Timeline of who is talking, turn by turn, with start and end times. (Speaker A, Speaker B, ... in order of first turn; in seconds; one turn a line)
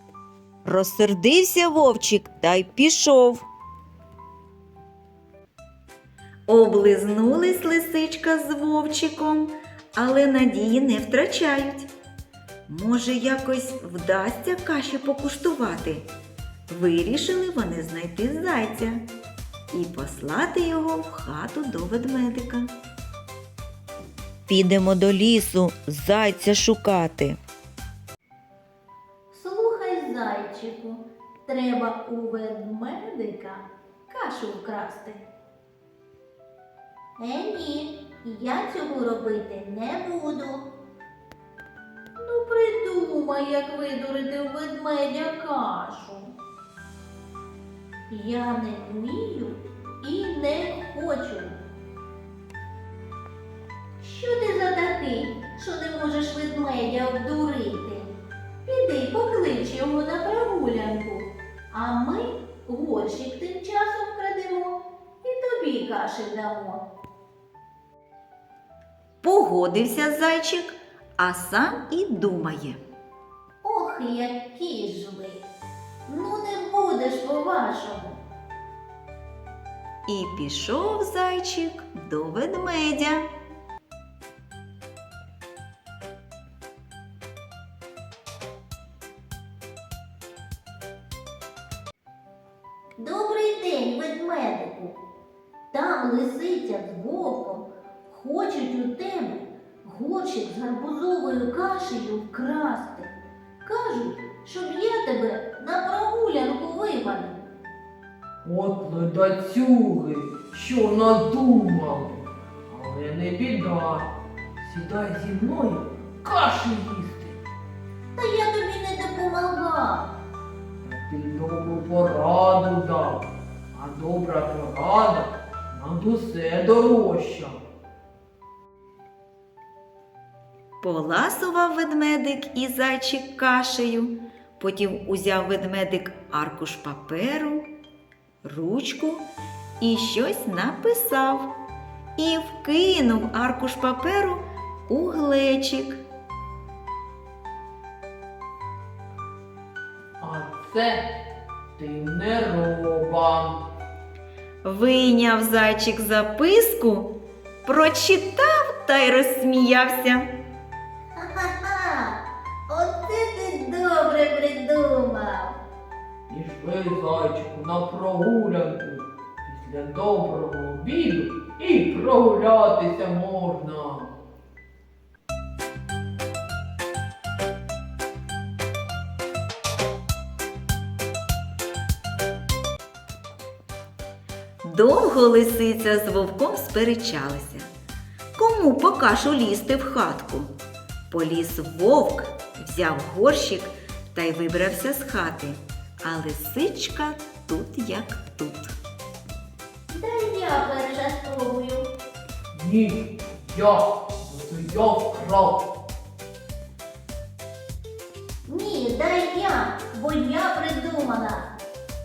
Speaker A: 0.7-3.5
Speaker A: 6.5-11.9
Speaker A: 12.7-16.1
Speaker A: 16.7-19.0
Speaker A: 19.7-22.7
Speaker A: 24.5-27.4
Speaker B: 29.3-35.2
Speaker B: 37.2-40.7
Speaker B: 42.2-46.3
Speaker B: 48.1-51.6
Speaker B: 54.0-58.1
Speaker B: 58.6-66.8
Speaker A: 69.2-72.8
Speaker B: 73.6-75.5
Speaker B: 76.1-78.2
Speaker A: 80.1-83.3
Speaker B: 93.0-95.0
Speaker B: 95.7-107.4
Speaker C: 108.4-117.4
Speaker B: 118.2-120.1
Speaker C: 120.8-127.6
Speaker A: 130.8-137.7
Speaker A: 138.4-139.3
Speaker A: 139.8-141.5
Speaker A: 142.2-146.0
Speaker C: 150.2-151.1
Speaker C: 151.8-153.6
Speaker A: 154.6-157.1
Speaker A: 157.7-160.3
Speaker B: 161.2-165.6
Speaker C: 166.3-174.1
Speaker A: 184.6-187.7
Speaker A: 188.3-190.5
Speaker A: 191.1-198.7
Speaker B: 199.9-201.9
Speaker C: 202.5-205.7
Speaker B: 208.5-211.5